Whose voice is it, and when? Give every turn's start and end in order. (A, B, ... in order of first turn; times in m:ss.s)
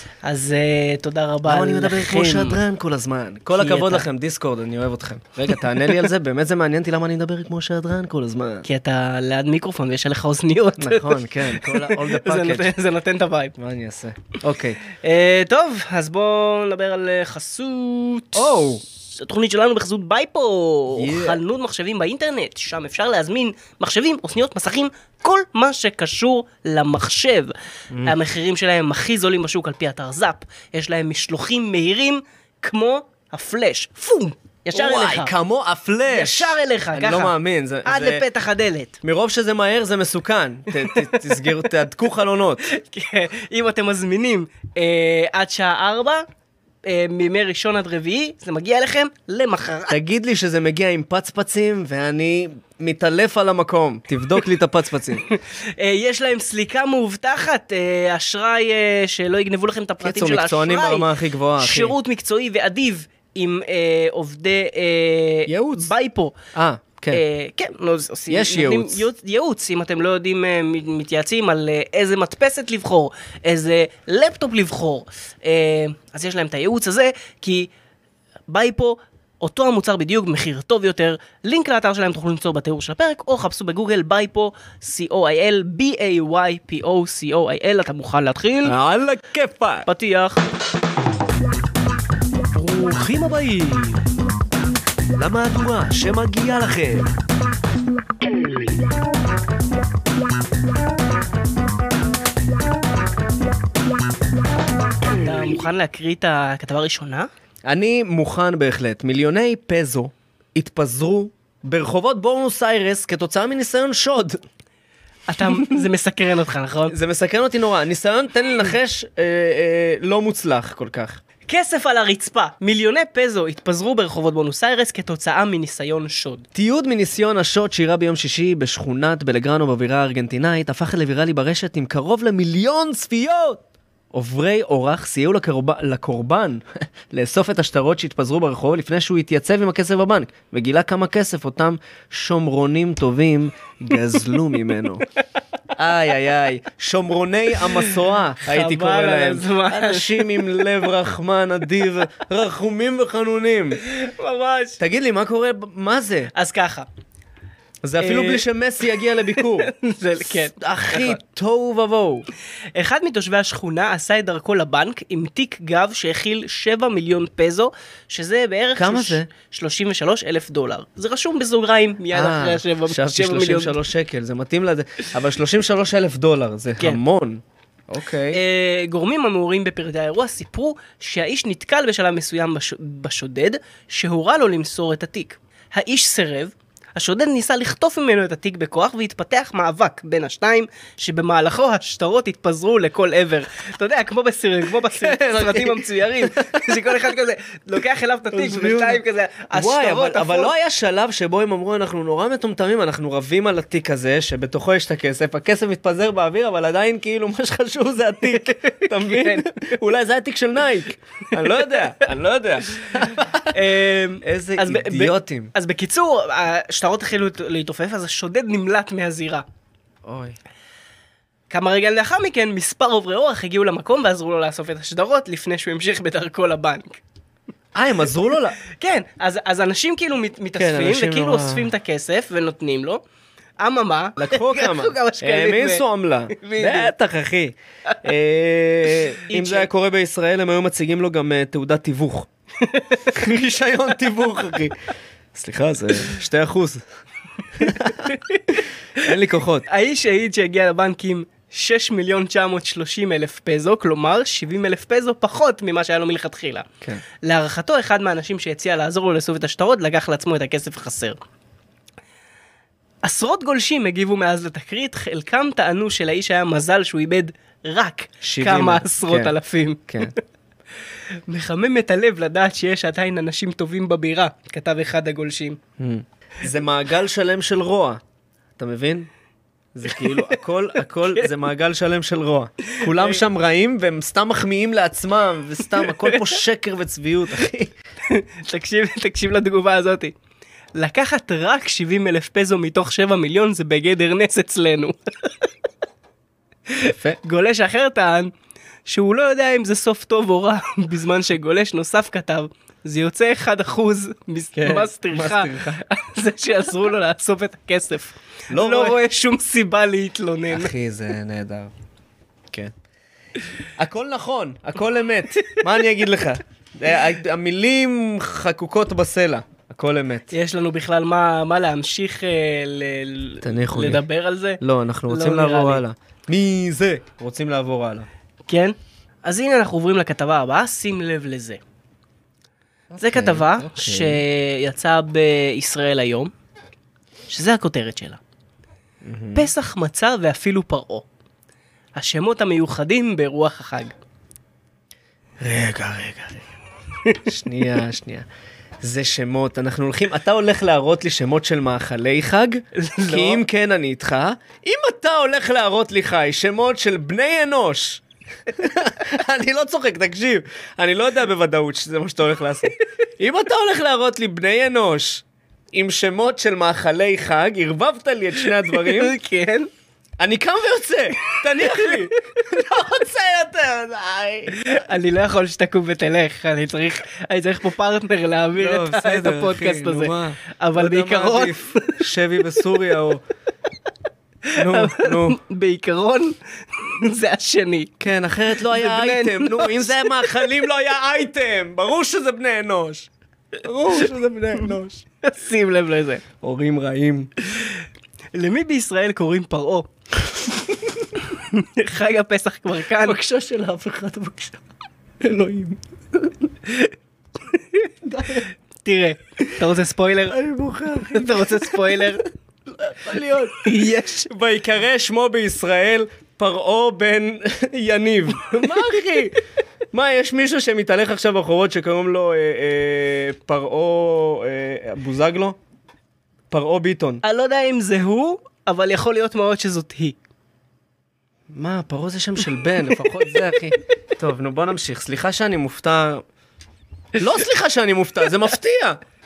0:00.2-0:02.6 A
0:01.4-0:08.7 B
0:03.5-0:04.1 A
0:08.6-0:13.5 A
0:10.8-0:12.7 B
0:13.6-0:14.8 B
0:14.8-0:27.5 A
0:18.3-0:18.8 B
0:20.9-0:21.4 B
0:27.9-0:28.2 B
0:28.0-0:35.3 A
0:34.7-0:38.2 B
0:36.1-0:37.3 A
0:37.8-0:39.0 A
0:39.0-0:42.7 B
0:40.8-0:41.2 A
0:42.6-0:46.2 A
0:46.8-0:50.0 A
0:49.9-0:55.2 B
0:55.2-1:06.4 A
1:00.0-1:01.9 B
1:05.5-1:05.9 B
1:06.5-1:07.2 B
1:07.1-1:17.7 A
1:08.3-1:09.0 B
1:18.5-1:28.8 A
1:28.6-1:29.9 B
1:29.8-1:30.5 A
1:32.5-1:34.1 A
1:35.2-1:37.1 B
1:45.0-1:47.3 A
1:47.7-1:54.4 B
1:55.3-1:56.9 A
1:55.4-1:55.8 B
1:56.9-2:01.2 B
2:01.4-2:06.4 A
2:06.6-2:13.6 B
2:14.1-2:25.1 B
2:25.8-2:33.8 B
2:27.6-2:27.9 A
2:28.4-2:30.7 A
2:33.8-2:34.8 A
2:34.8-2:36.3 B
2:36.3-2:36.9 A
2:37.8-2:39.7 B
2:38.0-2:38.4 A
2:39.4-2:41.2 A
2:40.4-2:42.3 B
2:42.7-2:53.8 A
2:48.8-2:49.3 B
2:52.1-2:58.4 B
2:58.3-3:20.5 A
3:14.9-3:17.0 B
3:18.3-3:19.0 B
3:19.5-3:33.6 B
3:28.5-3:29.5 A
3:33.0-3:39.4 A
3:34.2-3:35.5 B
3:40.1-3:40.4 B
3:41.5-3:47.0 A
3:47.8-3:48.6 B
3:48.6-3:53.0 A
3:50.6-3:51.7 B
3:53.6-3:56.9 A
3:54.2-4:02.3 B
3:59.3-3:59.7 A
4:02.6-4:03.1 A
4:03.1-4:04.8 B
4:05.3-4:06.8 B
4:07.5-4:09.7 B
4:09.7-4:16.7 A
4:17.2-4:21.2 A
4:23.0-4:30.1 A
4:28.2-4:29.4 B
4:29.9-4:30.1 B
4:31.3-4:35.6 A
4:35.8-4:38.0 B
4:38.6-4:39.1 B
4:39.7-4:47.8 B
4:42.8-4:43.2 A
4:45.8-4:46.2 A
4:48.1-4:50.1 A
4:50.8-4:55.5 A
4:56.7-4:58.3 A
4:56.9-4:57.2 B
4:58.9-5:10.7 A
5:04.6-5:05.8 B
5:08.5-5:09.0 B
5:10.5-5:11.7 B
5:13.8-5:20.3 B
5:20.3-5:25.8 A
5:23.4-5:24.0 B
5:24.6-5:28.1 B
5:28.4-5:31.6 A
5:32.9-5:34.2 B
5:33.0-5:36.3 A
5:37.3-5:38.2 A
5:39.0-5:39.5 B
5:39.3-5:41.1 A
5:42.0-5:44.0 A
5:45.4-5:46.4 B
5:47.2-5:48.2 B
5:48.8-6:09.2 B
5:52.8-5:53.4 A
6:08.4-6:09.7 A
6:10.2-6:14.6 B
6:11.6-6:12.1 A
6:14.6-6:22.0 A
6:18.6-6:23.2 B
6:24.5-6:27.9 A
6:24.5-6:25.4 B
6:28.0-6:35.0 B
6:28.6-6:30.6 A
6:35.2-6:36.2 A
6:36.4-6:37.3 B
6:37.4-6:39.9 A
6:41.2-6:43.2 A
6:43.0-6:44.6 B
6:45.2-6:46.3 B
6:46.6-6:46.9 A
6:47.5-6:47.9 A
6:48.0-6:48.5 B
6:48.8-6:50.4 A
6:50.3-6:51.9 B
6:51.0-6:52.2 A
6:52.7-6:59.4 B
6:53.6-6:54.3 A
6:59.9-7:05.6 B
7:06.5-7:07.2 B
7:07.2-7:10.2 A
7:11.5-7:16.2 B
7:17.2-7:19.0 B